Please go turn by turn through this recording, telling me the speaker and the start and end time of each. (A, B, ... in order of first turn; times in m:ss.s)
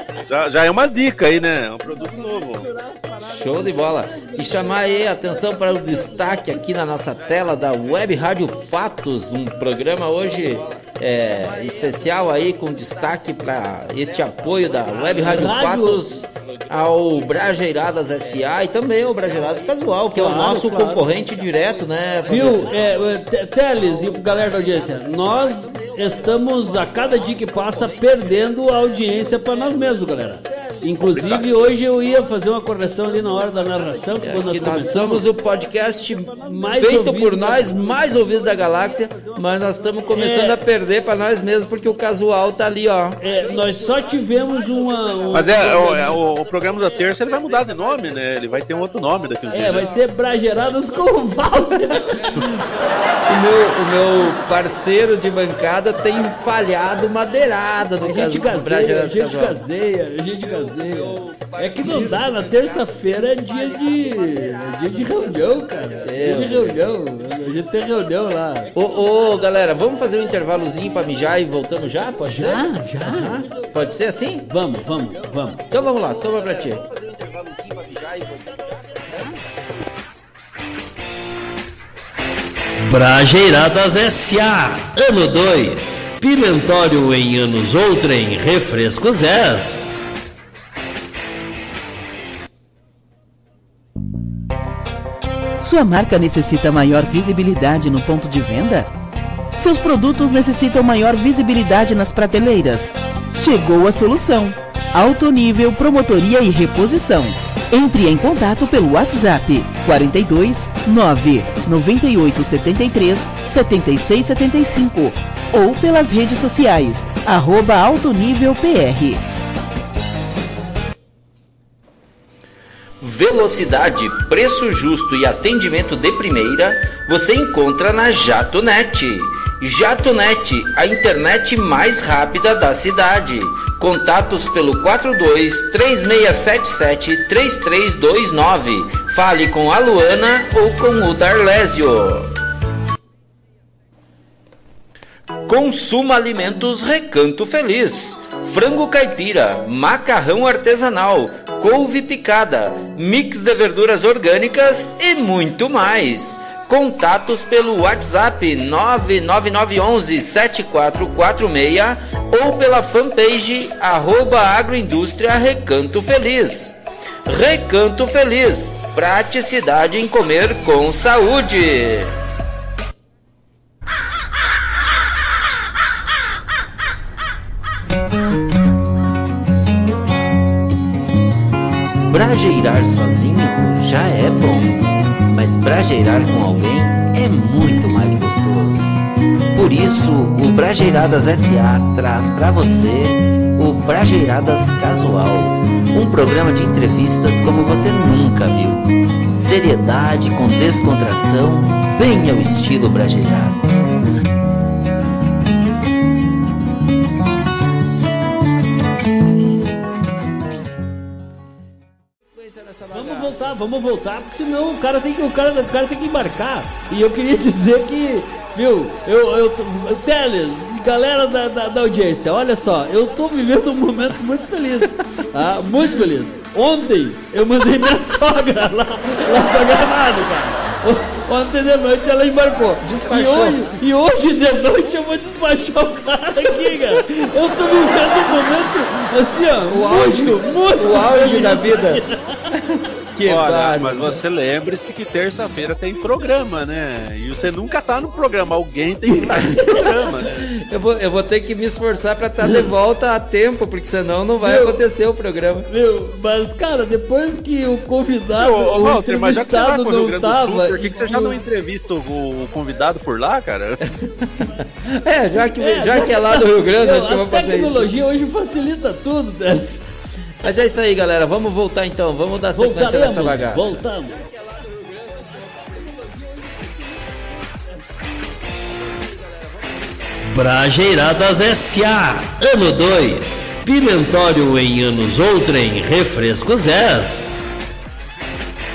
0:00.3-0:02.7 A
0:02.0-0:05.1 B
0:03.2-0:23.1 C
0:15.2-0:16.0 B
0:20.0-0:21.1 B
0:22.2-0:40.6 B
0:23.8-0:30.5 C
0:31.1-0:31.4 A
0:34.2-0:43.2 C
0:43.2-0:46.3 B
0:45.3-0:49.9 A
0:49.5-0:52.4 B
0:53.3-0:59.6 C
0:58.0-1:08.7 B
1:00.7-1:06.9 C
1:08.7-1:14.5 C
1:12.2-1:13.6 B
1:14.4-1:15.7 B
1:15.7-1:19.4 C
1:22.9-1:30.0 D
1:22.9-1:24.1 B
1:35.6-1:38.9 E
1:39.6-1:59.2 E
2:03.0-2:22.3 C
2:25.5-2:46.7 C
2:47.2-2:52.2 C
3:02.1-3:08.9 C
3:09.5-3:23.8 C
3:32.3-3:33.6 C
3:32.9-4:02.4 B
3:52.8-3:53.7 C
3:59.7-4:02.0 C
4:02.7-4:04.2 C
4:03.2-4:10.3 A
4:09.6-4:09.9 B
4:10.3-4:15.7 C
4:14.4-4:14.8 B
4:15.7-4:21.4 B
4:18.3-4:23.8 A
4:24.2-4:27.9 C
4:25.6-4:29.8 B
4:30.4-4:33.9 C
4:32.6-4:34.2 B
4:34.6-4:35.4 C
4:40.4-4:41.6 B
4:40.4-4:47.3 D